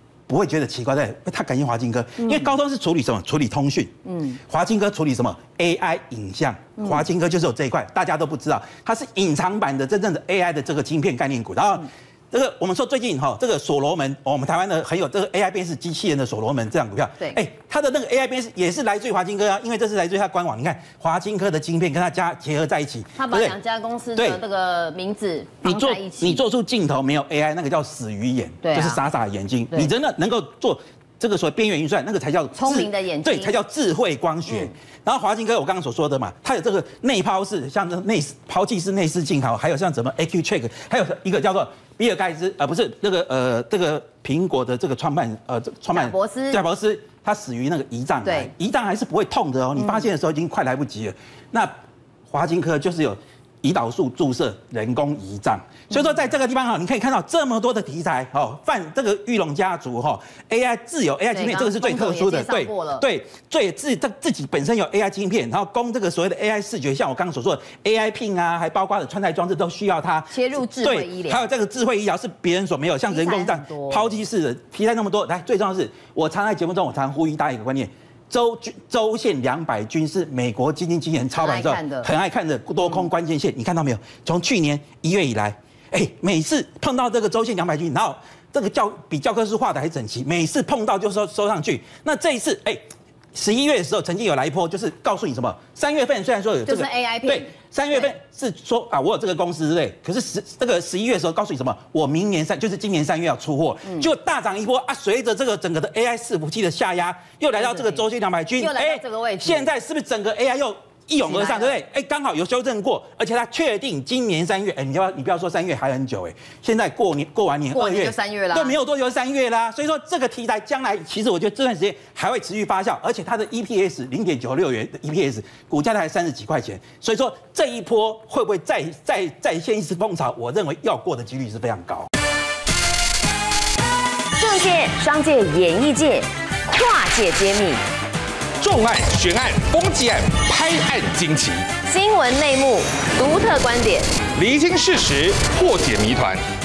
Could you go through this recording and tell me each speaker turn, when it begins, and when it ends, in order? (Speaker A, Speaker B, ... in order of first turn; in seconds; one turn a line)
Speaker A: 0.3-23.6
Speaker B: 4.1-4.4
Speaker B: 23.2-26.4
Speaker A: 24.1-24.4
Speaker A: 25.6-51.7
Speaker B: 28.6-29.0
Speaker B: 32.5-33.5
Speaker B: 45.9-46.6
Speaker B: 48.2-48.5
Speaker A: 52.3-92.8
Speaker B: 61.3-63.0
Speaker B: 70.3-71.4
Speaker B: 73.1-74.1
Speaker B: 81.3-82.1
Speaker A: 93.3-132.1
Speaker B: 96.7-98.1
Speaker B: 107.6-108.0
Speaker B: 108.6-109.7
Speaker B: 111.2-111.8
Speaker B: 117.7-118.7
Speaker B: 134.4-137.8
Speaker C: 138.6-141.7
Speaker B: 141.9-144.1
Speaker C: 144.4-146.4